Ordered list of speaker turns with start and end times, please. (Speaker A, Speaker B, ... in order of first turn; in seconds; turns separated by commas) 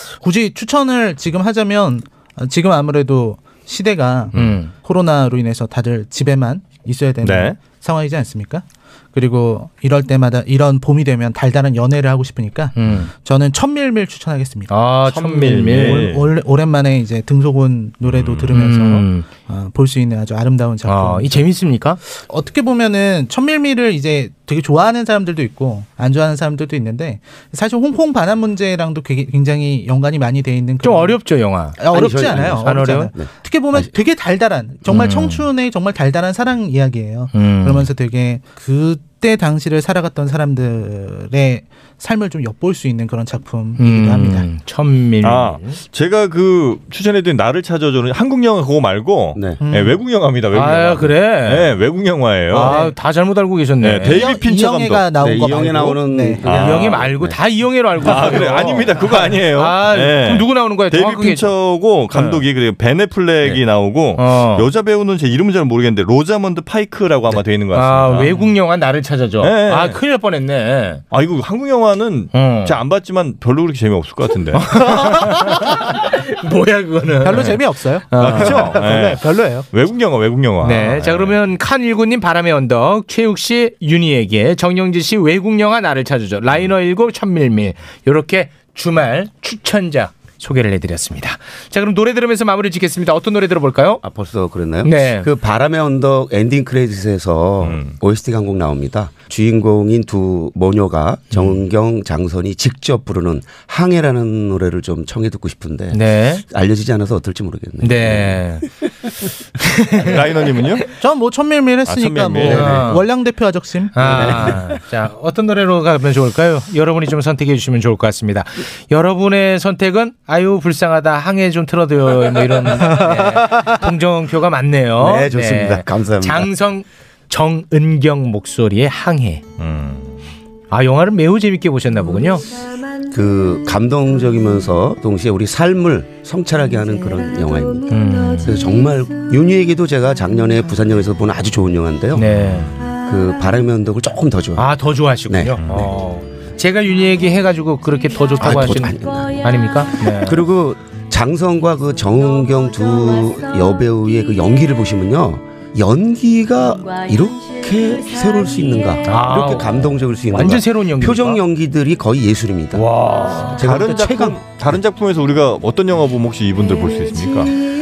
Speaker A: 0.2-14.8, Speaker B: 4.3-4.7, Speaker C: 4.3-4.7, Speaker B: 7.2-7.6, Speaker C: 12.7-13.1, Speaker C: 14.7-16.1, Speaker B: 15.1-16.3, Speaker A: 15.7-21.5, Speaker B: 18.0-18.5, Speaker C: 18.5-19.3, Speaker C: 20.8-22.0, Speaker A: 22.1-31.2, Speaker C: 30.8-33.1, Speaker A: 31.8-44.5, Speaker D: 31.9-33.9, Speaker C: 34.9-35.5, Speaker C: 37.3-37.9, Speaker C: 43.8-45.8, Speaker B: 45.2-52.9, Speaker D: 49.3-49.6, Speaker A: 49.6-50.0, Speaker C: 50.5-51.7, Speaker C: 52.5-54.2, Speaker A: 52.5-52.9, Speaker B: 53.8-55.1, Speaker A: 54.1-56.4, Speaker D: 55.2-57.4, Speaker B: 56.4-57.1, Speaker C: 56.5-61.5, Speaker B: 58.0-68.4, Speaker C: 62.1-62.5, Speaker C: 64.1-64.7, Speaker C: 67.7-71.0, Speaker B: 69.4-70.0, Speaker B: 71.1-75.3, Speaker C: 72.3-72.8, Speaker C: 74.5-78.9, Speaker A: 77.2-79.7, Speaker B: 78.1-81.4, Speaker C: 80.6-94.0, Speaker D: 94.0-108.7, Speaker C: 94.8-95.3, Speaker B: 97.6-98.0, Speaker C: 105.9-106.4, Speaker C: 107.8-108.7, Speaker C: 109.6-110.6, Speaker B: 110.0-110.9, Speaker A: 110.9-114.0, Speaker B: 111.8-113.0, Speaker C: 112.4-113.0, Speaker C: 113.9-129.4, Speaker D: 114.1-114.5, Speaker B: 114.1-114.6, Speaker A: 122.8-123.8, Speaker D: 125.0-126.5, Speaker B: 129.6-130.2, Speaker C: 130.7-132.4, Speaker D: 133.0-142.2, Speaker C: 137.9-138.6, Speaker C: 142.1-142.7, Speaker B: 142.4-142.8, Speaker D: 142.9-144.7, Speaker C: 144.5-150.4, Speaker D: 145.3-145.6, Speaker D: 148.4-149.4, Speaker D: 150.1-162.8, Speaker C: 159.0-161.4, Speaker C: 162.7-163.6, Speaker D: 163.5-164.8, Speaker B: 163.6-167.6